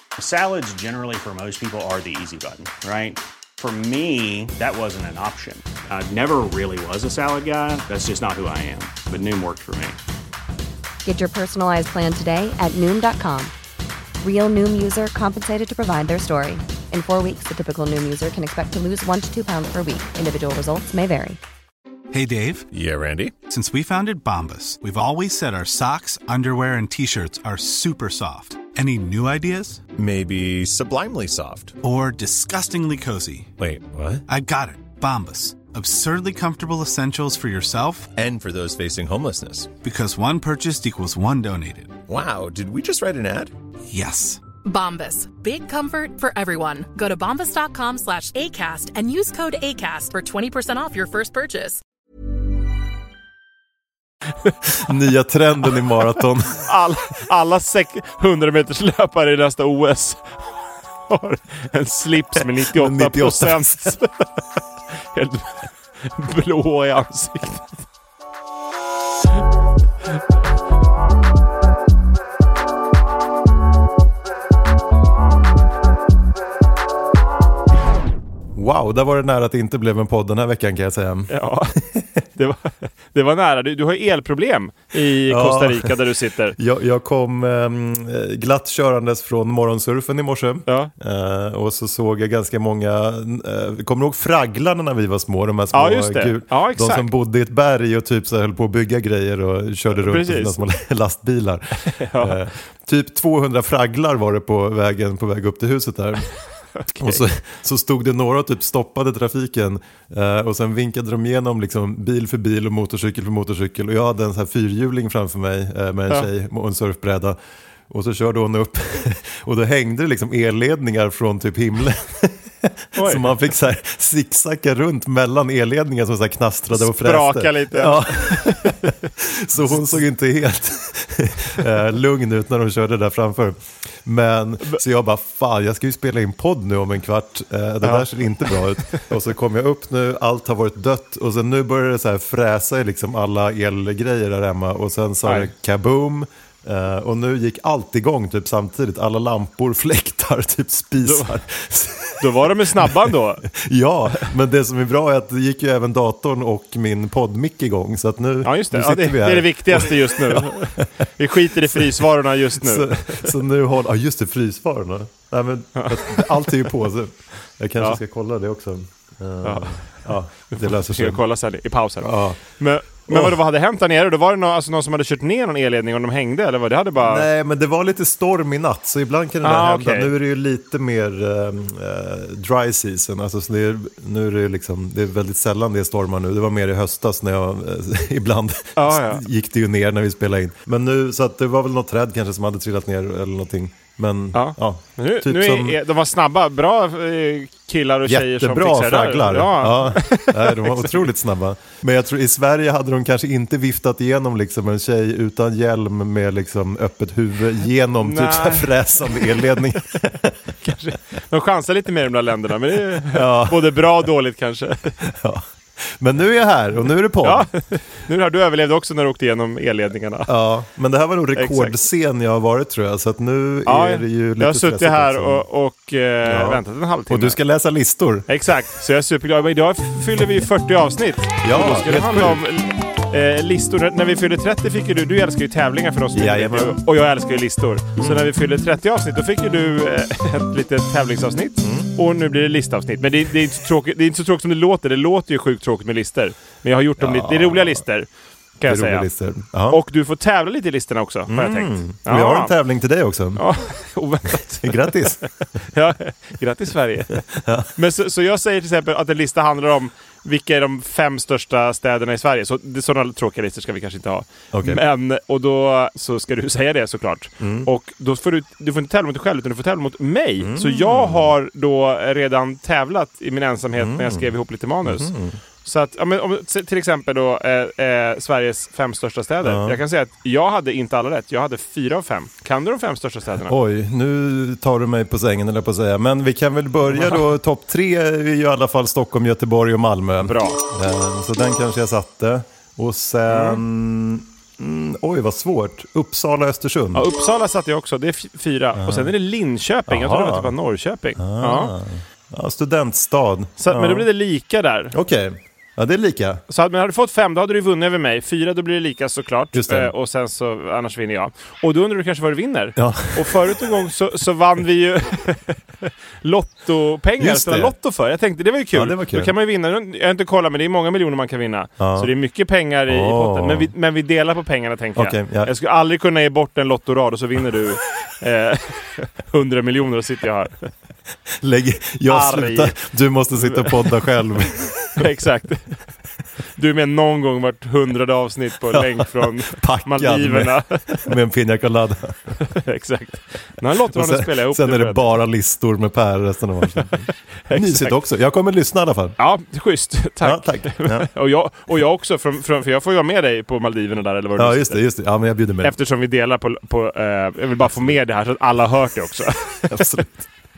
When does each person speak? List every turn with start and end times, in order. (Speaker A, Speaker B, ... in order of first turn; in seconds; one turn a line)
Speaker A: 0.2-10.0
Speaker B: 11.0-13.5
Speaker B: 14.2-21.4
Speaker C: 22.1-22.7
Speaker D: 22.7-23.3
Speaker C: 23.5-29.8
Speaker D: 30.0-31.8
Speaker C: 31.8-33.5
Speaker D: 33.6-34.2
Speaker C: 34.3-38.1
Speaker D: 38.1-39.7
Speaker C: 39.8-42.0
Speaker D: 42.1-43.5
Speaker C: 43.9-44.4
Speaker E: 44.6-51.8
Speaker F: 54.7-56.7
Speaker G: 56.6-60.4
Speaker G: 61.1-64.1
Speaker F: 62.7-63.9
Speaker G: 65.1-67.8
Speaker F: 78.5-82.0
Speaker G: 81.3-81.7
Speaker G: 82.3-86.5
Speaker F: 85.3-85.9
Speaker F: 86.5-106.3
Speaker G: 95.7-97.1
Speaker G: 99.9-100.6
Speaker G: 101.8-102.4
Speaker G: 106.8-107.2
Speaker F: 107.0-117.4
Speaker F: 117.9-160.9
Speaker G: 123.0-123.3
Speaker G: 126.7-128.9
Speaker G: 137.8-139.1
Speaker G: 145.2-145.5
Speaker G: 151.0-151.3
Speaker G: 152.2-153.4
Speaker G: 158.4-163.3
Speaker F: 162.6-171.2
Speaker G: 165.8-166.7
Speaker G: 169.4-170.0
Speaker G: 170.5-177.3
Speaker F: 172.0-172.4
Speaker F: 173.1-173.4
Speaker F: 177.0-195.8
Speaker G: 179.4-180.1
Speaker G: 188.8-189.2
Speaker G: 194.3-201.1
Speaker F: 198.1-210.4
Speaker G: 208.0-209.3
Speaker G: 210.6-215.0
Speaker F: 213.0-213.9
Speaker F: 215.0-217.5
Speaker G: 217.2-220.3
Speaker F: 220.3-225.4
Speaker G: 221.4-221.8
Speaker G: 223.7-227.4
Speaker F: 226.2-228.3
Speaker G: 228.3-248.1
Speaker F: 231.4-232.4
Speaker F: 236.1-236.8
Speaker F: 238.0-238.3
Speaker F: 241.6-241.9
Speaker F: 247.0-247.8
Speaker G: 248.6-249.1
Speaker F: 248.7-249.8
Speaker G: 249.7-252.5
Speaker F: 251.3-253.4
Speaker G: 253.3-257.2
Speaker F: 254.6-255.2
Speaker F: 257.1-257.7
Speaker G: 257.8-275.1
Speaker F: 264.5-264.8
Speaker F: 267.4-267.7
Speaker F: 270.4-271.3
Speaker F: 273.8-274.3
Speaker F: 274.8-275.4
Speaker G: 275.6-283.5
Speaker F: 279.4-279.8
Speaker F: 283.5-297.1
Speaker G: 286.9-287.2
Speaker G: 290.2-290.6
Speaker G: 293.3-293.6
Speaker G: 296.9-301.7
Speaker F: 298.8-299.1
Speaker F: 299.9-300.5
Speaker F: 301.1-304.1
Speaker G: 303.6-304.9
Speaker F: 304.9-306.4
Speaker G: 306.5-330.7
Speaker F: 309.5-309.9
Speaker F: 312.8-313.4
Speaker F: 317.2-317.8
Speaker F: 318.7-319.3
Speaker F: 321.8-322.1
Speaker F: 322.9-323.7
Speaker F: 324.9-325.5
Speaker F: 331.3-335.1
Speaker G: 332.1-332.7
Speaker G: 333.4-333.9
Speaker G: 335.0-335.8
Speaker G: 336.6-341.1
Speaker F: 338.7-342.1
Speaker G: 342.4-345.0
Speaker F: 343.9-349.2
Speaker G: 347.5-348.0
Speaker G: 349.2-354.8
Speaker F: 350.2-351.1
Speaker F: 354.4-355.8
Speaker G: 355.6-360.1
Speaker F: 359.7-360.1